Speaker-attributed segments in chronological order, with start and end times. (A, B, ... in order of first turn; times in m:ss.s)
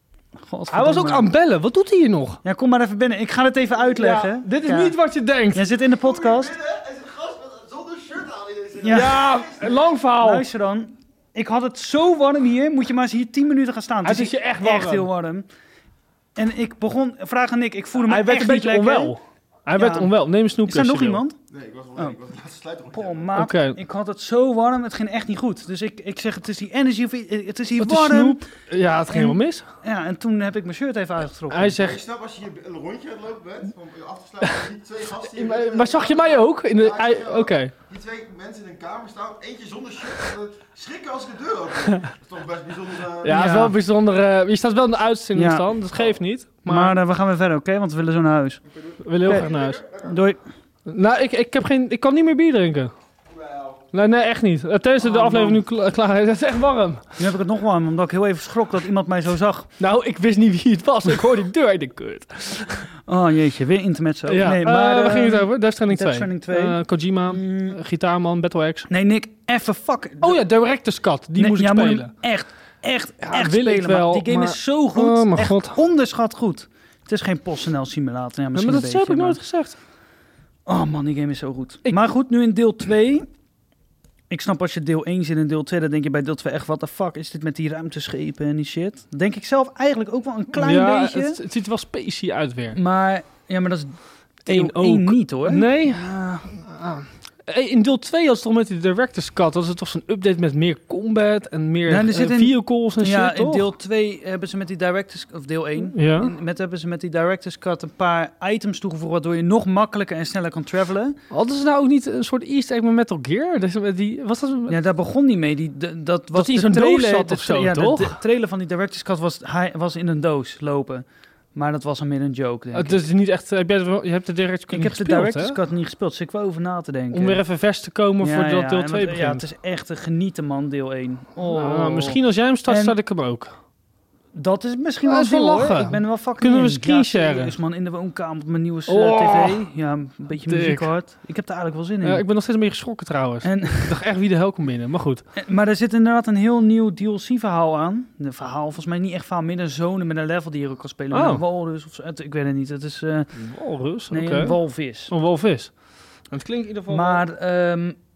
0:00.5-0:01.3 A
0:00.7-0:02.4 B
0:02.4-0:04.9 A
0:04.0-0:05.6 B
0:05.5-0:06.5 A
0:05.8-0:09.9 C
0:08.8-0:09.3 A
0:08.9-0:10.5 B
0:10.2-0:15.4 A
0:14.0-0:15.1 B
0:16.4-0:19.1 A
0:18.0-0:21.2 B
0:19.8-0:20.1 A
0:20.6-0:21.4 A
0:21.5-0:23.3 C
0:22.9-0:28.4 A
0:23.3-0:23.8 B
0:27.8-0:29.6 B
0:29.1-0:31.8 A
0:31.5-0:32.0 B
0:31.7-0:43.4 C
0:35.2-0:37.7 B
0:43.2-0:46.9 B
0:43.3-0:43.8 A
0:45.3-0:45.6 A
0:46.6-0:48.6 A
0:48.8-0:50.1 C
0:49.0-0:49.9 B
0:50.0-0:50.4 A
0:50.8-0:52.9 B
0:53.3-0:53.8 C
0:53.9-0:57.0 B
0:55.0-0:55.6 A
0:57.2-0:59.7 A
0:59.8-1:02.9 B
1:03.0-1:06.8 A
1:04.3-1:08.9 B
1:07.3-1:07.7 A
1:08.9-1:10.4 A
1:10.2-1:12.1 B
1:11.4-1:19.4 A
1:13.2-1:15.8 B
1:18.5-1:19.8 B
1:20.6-1:23.2 A
1:24.3-1:31.4 A
1:30.5-1:32.8 B
1:32.7-1:36.5 A
1:34.5-1:43.6 B
1:41.9-1:51.2 A
1:45.9-1:46.3 B
1:51.3-1:54.8 B
1:54.7-2:03.0 A
1:56.3-1:58.2 B
2:02.7-2:05.6 B
2:04.7-2:07.4 A
2:07.1-2:09.4 B
2:08.2-2:13.0 A
2:11.5-2:13.5 B
2:14.3-2:22.2 A
2:15.0-2:17.5 B
2:18.9-2:19.6 B
2:20.4-2:20.9 B
2:22.0-2:25.2 B
2:23.4-2:23.9 A
2:25.4-2:33.3 A
2:31.1-2:31.4 B
2:33.3-2:34.6 B
2:34.1-2:35.1 A
2:35.1-2:35.8 B
2:36.3-2:37.2 B
2:36.9-2:38.0 A